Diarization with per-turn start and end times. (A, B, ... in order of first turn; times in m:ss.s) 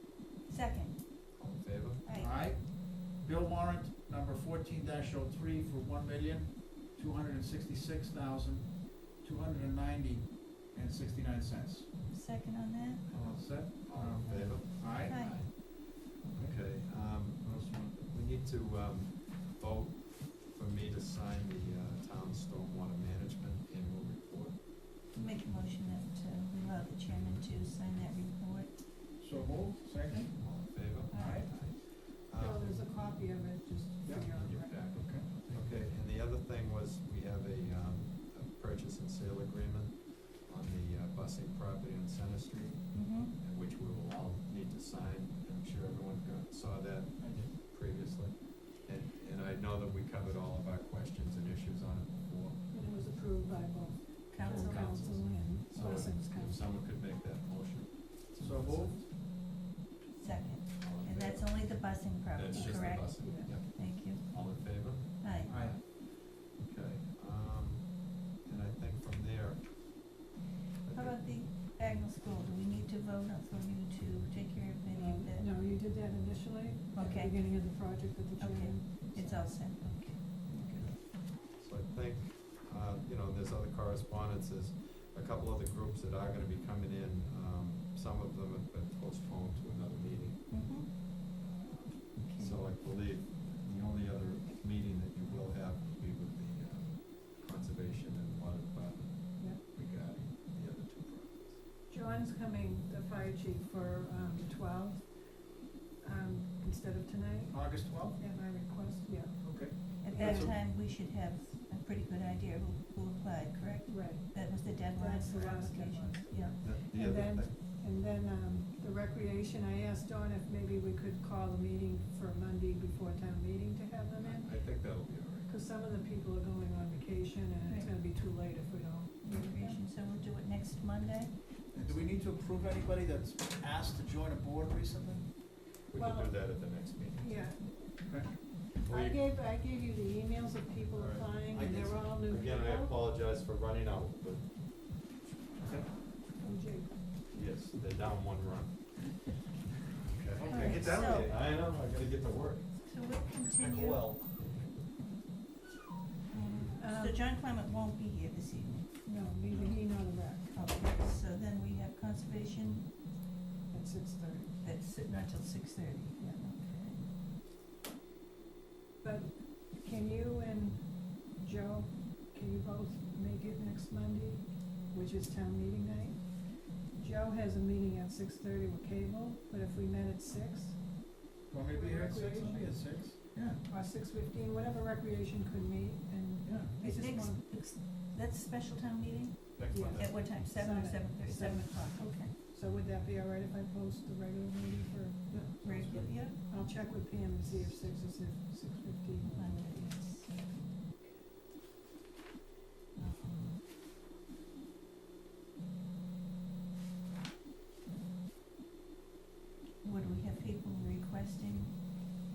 0:00.5-0:01.0 A
0:01.4-0:02.0 B
0:02.0-0:02.5 A
0:02.2-0:11.9 C
0:12.1-0:13.0 A
0:13.1-0:24.6 B
0:13.1-0:15.2 C
0:14.4-0:15.4 A
0:16.2-0:17.9 C
0:25.1-0:29.4 A
0:29.2-0:30.3 C
0:30.1-0:31.4 A
0:30.4-0:32.8 B
0:31.1-0:31.5 C
0:32.4-0:34.8 D
0:34.0-0:34.3 C
0:34.2-0:52.6 B
0:34.9-0:35.7 C
0:42.9-0:43.3 A
0:52.7-0:56.6 D
0:54.3-0:55.0 A
0:54.4-0:59.2 B
0:58.4-0:59.0 C
1:00.2-1:05.6 A
1:00.8-1:10.1 B
1:02.5-1:03.5 D
1:05.5-1:05.8 C
1:10.8-1:11.2 B
1:10.9-1:15.5 A
1:14.9-1:20.9 D
1:16.9-1:17.8 A
1:18.4-1:20.5 A
1:20.8-1:41.6 B
1:30.5-1:30.9 A
1:32.2-1:32.6 A
1:41.9-1:45.2 D
1:46.0-1:50.5 D
1:47.5-1:48.2 C
1:49.4-1:50.5 C
1:50.0-1:56.6 A
1:53.9-2:04.7 D
1:56.6-1:57.6 B
2:04.2-2:05.5 B
2:05.4-2:09.8 D
2:09.2-2:11.4 A
2:11.7-2:15.3 C
2:15.9-2:17.7 B
2:15.9-2:16.4 D
2:17.2-2:23.0 D
2:18.8-2:19.2 B
2:20.9-2:24.5 B
2:25.6-2:25.9 C
2:26.4-2:27.0 D
2:27.3-2:32.9 B
2:30.4-2:31.4 A
2:32.8-2:34.2 A
2:33.6-2:34.7 B
2:36.3-2:39.8 A
2:36.8-2:37.2 D
2:39.0-2:40.5 D
2:40.5-2:42.9 A
2:43.7-2:44.5 D
2:44.6-2:47.0 A
2:49.0-3:01.1 D
3:01.5-3:03.6 C
3:01.7-3:02.9 D
3:03.6-3:07.4 D
3:06.4-3:06.8 C
3:06.8-3:12.3 A
3:09.5-3:10.3 B
3:09.7-3:15.4 D
3:15.3-3:16.1 C
3:15.6-3:16.4 A
3:16.4-3:20.0 D
3:19.3-3:20.7 A
3:23.0-3:23.6 A
3:29.8-3:31.7 A